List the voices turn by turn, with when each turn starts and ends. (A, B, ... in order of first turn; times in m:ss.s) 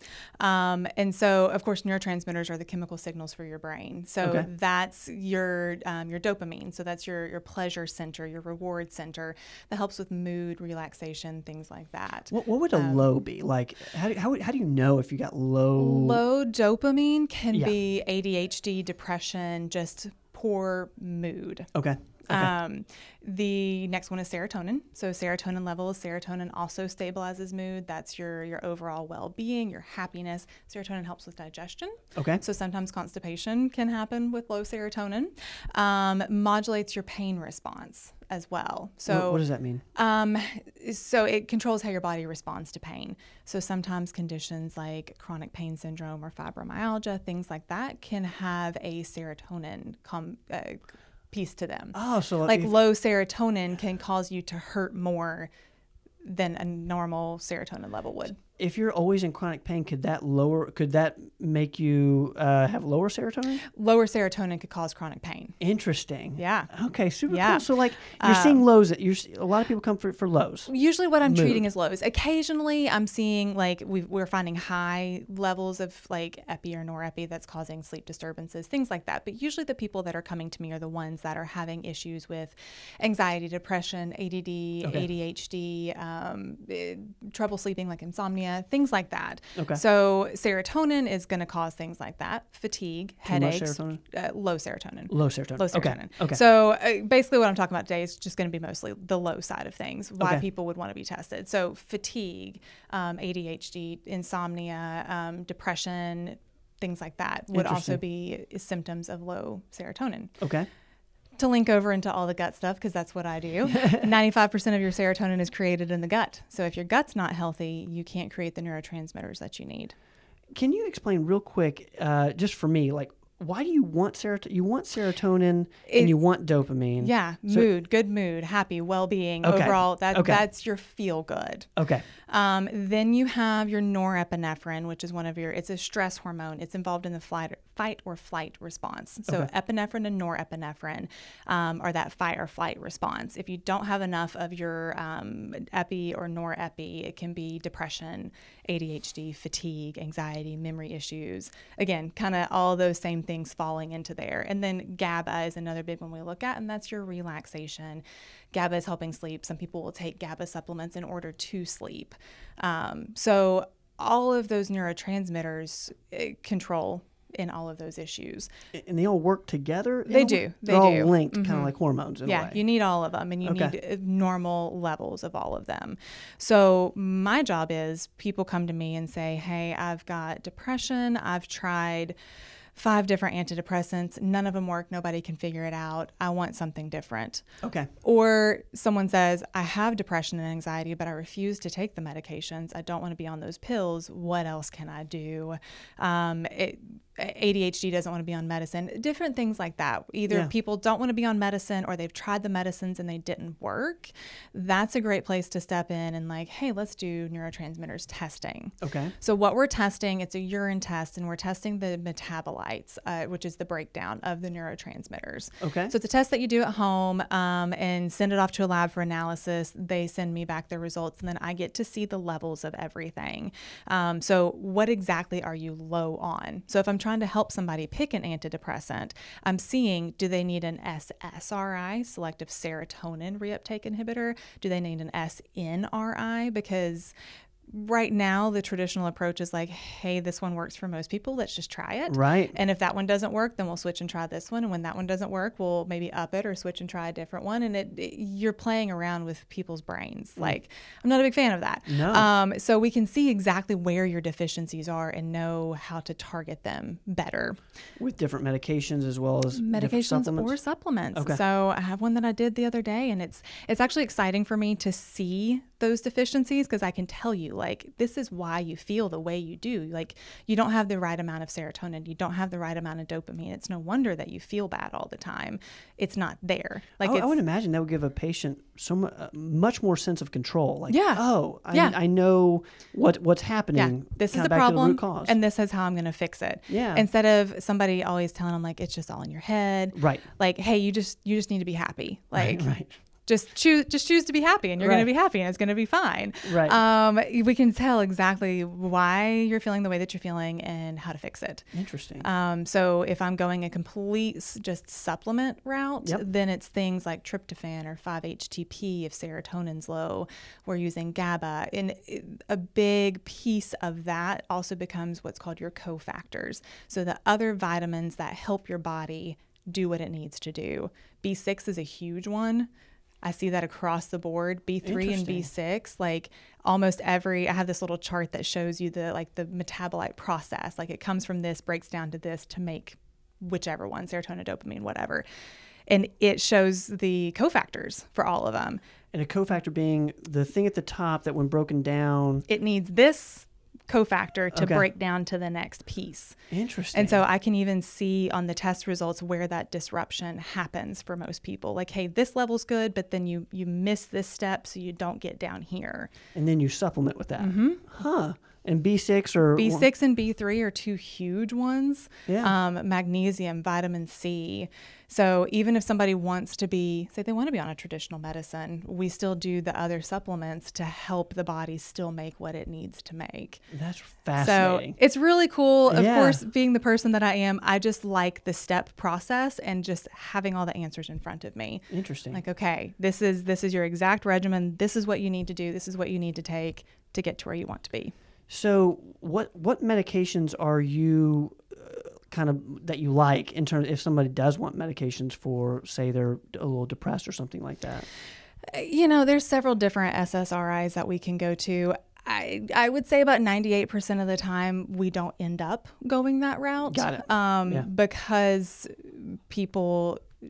0:00.4-0:13.1 A
0:04.2-0:04.5 B
0:12.3-0:16.2 B
0:15.7-0:21.7 A
0:21.8-0:22.5 B
0:22.3-0:39.4 A
0:32.2-0:32.4 B
0:39.1-0:39.8 B
0:40.0-0:55.5 A
0:51.9-0:52.7 B
0:56.2-0:58.4 A
0:58.6-1:03.6 B
1:03.7-1:05.6 A
1:05.6-1:10.7 B
1:06.4-1:06.7 A
1:07.3-1:08.6 A
1:10.7-1:50.3 A
1:11.2-1:11.7 B
1:29.6-1:29.8 B
1:33.3-1:34.0 B
1:35.1-1:36.4 B
1:47.5-1:48.0 B
1:50.4-1:50.7 B
1:51.4-1:59.9 A
2:00.5-2:07.7 B
2:05.9-2:06.1 A
2:07.0-2:11.7 A
2:09.4-2:10.4 B
2:11.8-2:12.0 B
2:12.3-2:48.5 A
2:48.7-2:52.6 B
2:50.1-2:51.7 A
2:52.2-3:02.2 A
2:53.4-2:53.8 B
3:02.8-3:07.4 A
3:07.6-3:07.9 B
3:08.0-3:57.1 A
3:28.8-3:29.1 B
3:35.6-3:35.9 B
3:57.7-4:17.6 A
4:02.1-4:02.6 B
4:11.9-4:12.3 B
4:18.0-4:20.6 B
4:19.5-4:37.4 A
4:21.1-4:21.4 B
4:37.0-4:45.4 B
4:40.9-4:42.0 A
4:43.8-4:52.7 A
4:46.7-4:47.1 B
4:50.0-4:50.3 B
4:52.4-4:52.9 B
4:53.3-5:01.6 A
4:54.8-4:55.1 B
4:56.4-4:56.8 B
5:01.7-5:02.3 B
5:02.2-5:22.7 A
5:23.2-5:35.2 A
5:24.8-5:25.5 B
5:35.9-5:38.8 A
5:39.1-5:42.5 B
5:42.5-5:46.4 A
5:44.5-5:44.9 B
5:46.5-5:47.2 B
5:46.9-5:56.1 A
5:56.4-5:59.9 B
5:57.4-5:57.8 A
5:59.6-6:13.6 A
6:02.3-6:02.5 B
6:13.7-6:15.0 B
6:14.4-6:28.1 A
6:15.9-6:16.4 B
6:21.9-6:22.4 B
6:28.5-6:38.1 B
6:38.7-6:50.2 A
6:46.9-6:47.9 B